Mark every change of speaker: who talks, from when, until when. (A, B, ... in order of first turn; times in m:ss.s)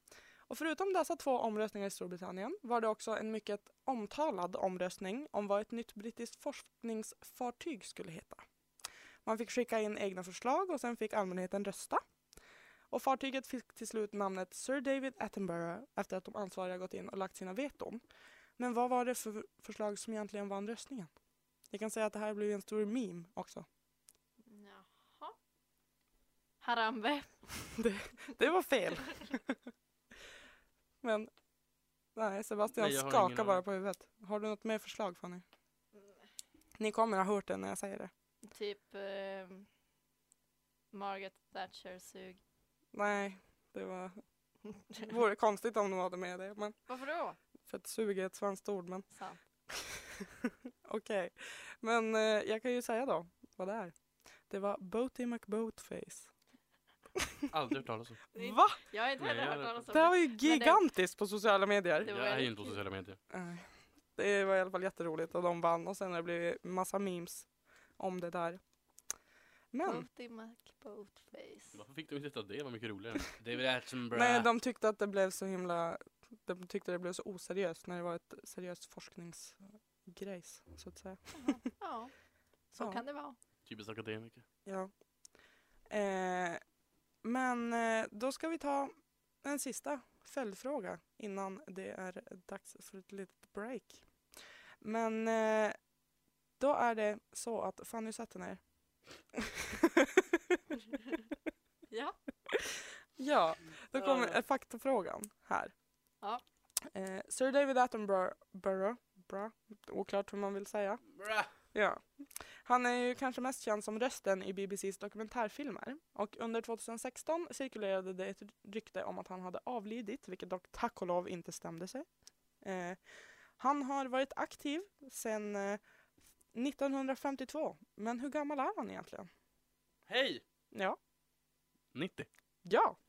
0:00.5-0:08.4 A
0:09.2-0:12.0 A
0:12.9-0:18.0 A
0:18.6-0:21.1 A
0:21.7-0:23.7 A
0:24.4-0:25.4 B
0:26.6-0:27.3 B
0:27.7-0:29.6 A
0:31.0-0:31.3 A
0:32.1-0:35.4 A
0:32.7-0:33.6 C
0:36.8-0:38.1 A
0:38.4-0:39.7 B
0:40.9-0:42.4 B
0:42.9-0:44.2 A
0:45.0-0:46.8 A
0:46.9-0:47.4 B
0:47.7-0:49.0 A
0:49.1-0:49.4 B
0:49.7-0:53.9 A
0:54.5-0:56.3 A
0:57.2-0:57.4 A
0:57.5-0:58.2 C
0:58.3-1:00.8 B
0:58.4-0:58.8 A
0:59.2-1:00.1 C
0:59.9-1:02.1 A
1:02.0-1:03.2 C
1:02.0-1:02.8 B
1:03.3-1:07.5 A
1:08.0-1:08.6 A
1:09.7-1:10.0 A
1:09.8-1:11.8 B
1:11.7-1:14.5 C
1:14.1-1:21.6 A
1:21.3-1:22.1 B
1:22.7-1:23.4 B
1:23.6-1:24.4 C
1:24.6-1:24.9 A
1:25.9-1:26.6 A
1:27.2-1:34.0 A
1:34.8-1:35.8 A
1:36.6-1:38.6 A
1:39.3-1:40.6 A
1:41.9-1:42.2 B
1:42.5-1:45.7 A
1:43.9-1:44.4 C
1:46.9-1:51.0 A
1:51.1-1:51.5 C
1:51.7-2:02.1 A
2:02.6-2:03.0 A
2:03.6-2:05.8 A
2:06.5-2:09.3 A
2:10.1-2:10.4 C
2:10.7-2:11.0 A
2:11.9-2:12.3 C
2:12.6-2:13.0 A